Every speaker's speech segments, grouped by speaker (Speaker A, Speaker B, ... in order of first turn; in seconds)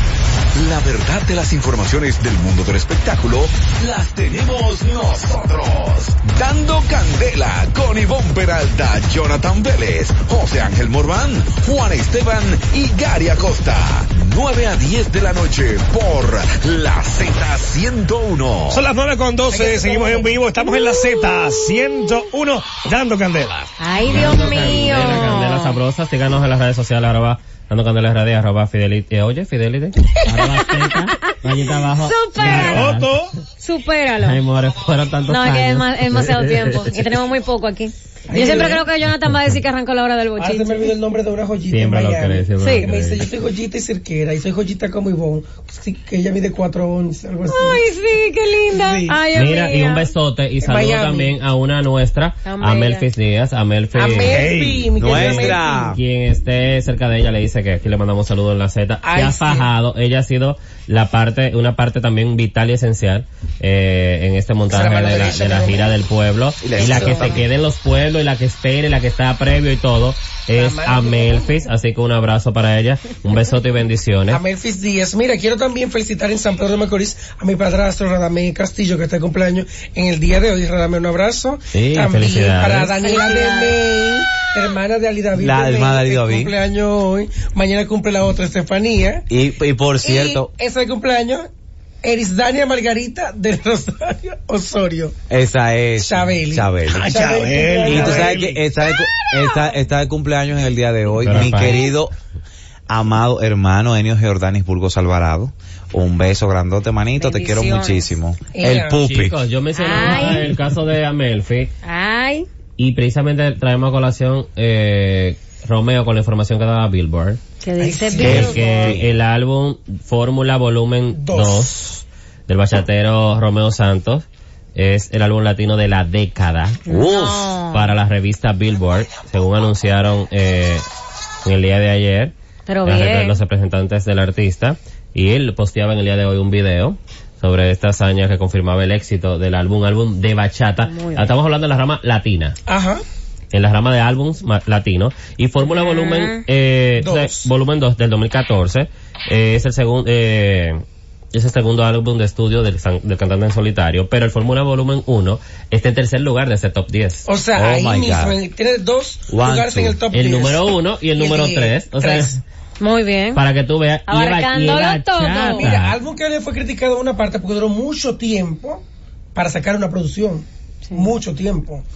Speaker A: 0.5-18.8
Speaker B: 18.7-23.7, 32.4-33.3, 54.2-54.9, 96.9-98.6
Speaker C: 19.5-20.4, 38.3-38.9, 40.4-47.8, 48.7-49.1, 50.6-51.4, 53.9-55.9, 59.0-59.7, 64.7-65.9, 70.5-71.6, 74.3-89.3, 90.0-91.5, 92.0-95.1, 96.0-98.9, 108.5-109.0, 117.8-119.0, 121.2-121.7, 142.7-143.0, 147.0-147.5, 157.2-162.4, 165.5-168.8, 169.3-171.8
Speaker D: 23.8-25.8, 30.3-31.3, 31.9-32.9, 33.6-34.4, 35.3-40.9, 42.6-42.9, 47.5-50.1, 52.4-53.1, 83.0-83.8, 107.2-108.1, 109.8-110.5, 111.8-112.5, 117.6-118.8, 126.9-127.9, 132.7-133.4, 140.8-141.3, 145.6-146.4, 162.8-163.4, 164.1-165.7
Speaker E: 24.1-33.1, 34.2-37.0, 41.7-43.2, 49.3-54.4, 55.0-74.4, 81.7-82.9, 101.2-101.8, 109.0-111.7, 112.8-117.4, 118.2-130.8, 131.4-132.3, 132.8-142.6, 143.5-157.2, 160.1-162.4, 163.3-165.9
Speaker F: 55.0-56.0, 66.6-67.4, 85.3-86.5, 89.3-90.5, 95.3-97.2, 97.8-102.1, 102.9-109.4, 118.2-119.1, 157.5-158.4, 159.3-160.0